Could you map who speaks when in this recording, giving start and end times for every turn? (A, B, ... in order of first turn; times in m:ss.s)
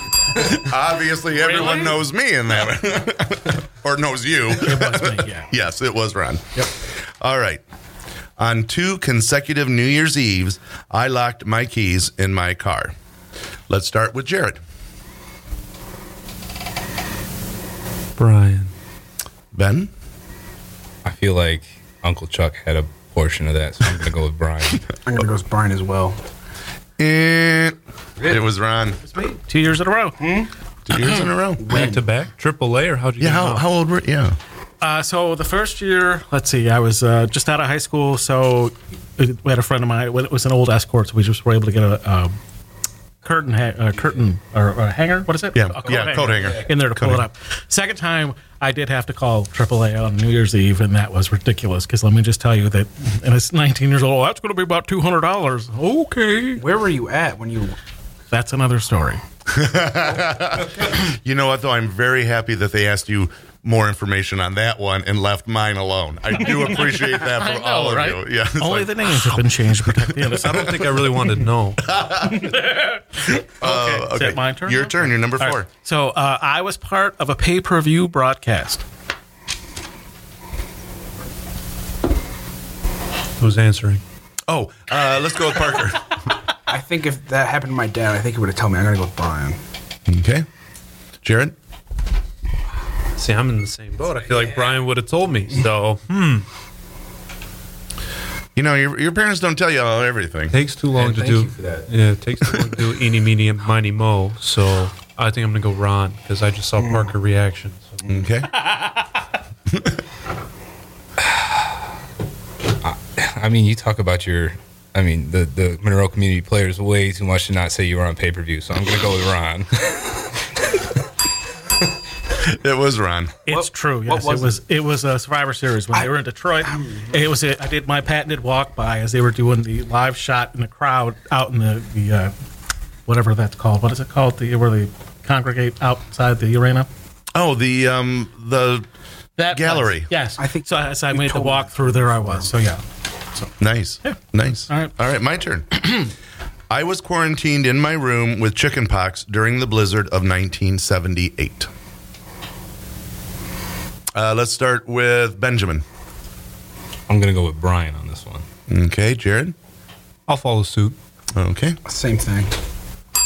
0:00.4-0:07.6 A
0:04.5-0:05.5 B
0:08.4-0:12.9 A
0:13.7-0:14.6 A
0:18.2-0:18.7 C
0:19.5-0:19.9 A
0:21.0-0:24.8 D
0:25.0-0:26.2 E
0:27.0-0:29.0 A
0:29.1-0:30.2 B
0:30.2-0:30.5 E
0:30.8-0:31.8 A
0:31.6-0:32.1 E
0:31.7-0:33.6 C
0:33.2-0:34.4 A
0:34.8-0:42.3 B
0:43.2-0:56.6 B
0:45.5-0:47.2 A
0:45.8-0:46.7 D
0:56.6-0:57.8 E
0:58.3-0:59.2 B
0:59.5-1:10.3 A
1:06.4-1:10.7 B
1:10.4-1:11.9 C
1:11.8-1:12.6 A
1:12.3-1:18.8 B
1:13.6-1:15.7 A
1:23.4-1:24.0 C
1:24.5-1:26.2 A
1:26.7-1:29.6 E
1:30.1-1:30.4 A
1:31.2-1:31.6 A
1:33.2-1:36.5 C
1:38.6-1:40.5 A
1:40.5-1:48.0 C
1:40.9-1:41.9 D
1:46.8-1:47.1 E
1:48.1-1:48.5 A
1:49.7-1:50.0 A
1:51.2-1:51.7 D
1:52.8-2:00.3 D
2:02.3-2:03.3 A
2:03.4-2:12.3 B
2:03.5-2:04.6 E
2:06.6-2:07.1 E
2:13.1-2:16.9 B
2:17.3-2:18.9 A
2:19.4-2:22.8 B
2:19.5-2:20.1 A
2:20.4-2:22.5 E
2:23.6-2:26.1 A
2:26.7-2:31.7 A
2:34.1-2:35.8 A
2:37.1-2:38.4 D
2:38.7-2:39.5 A
2:40.3-2:40.9 C
2:41.3-2:41.8 A
2:41.8-2:42.5 E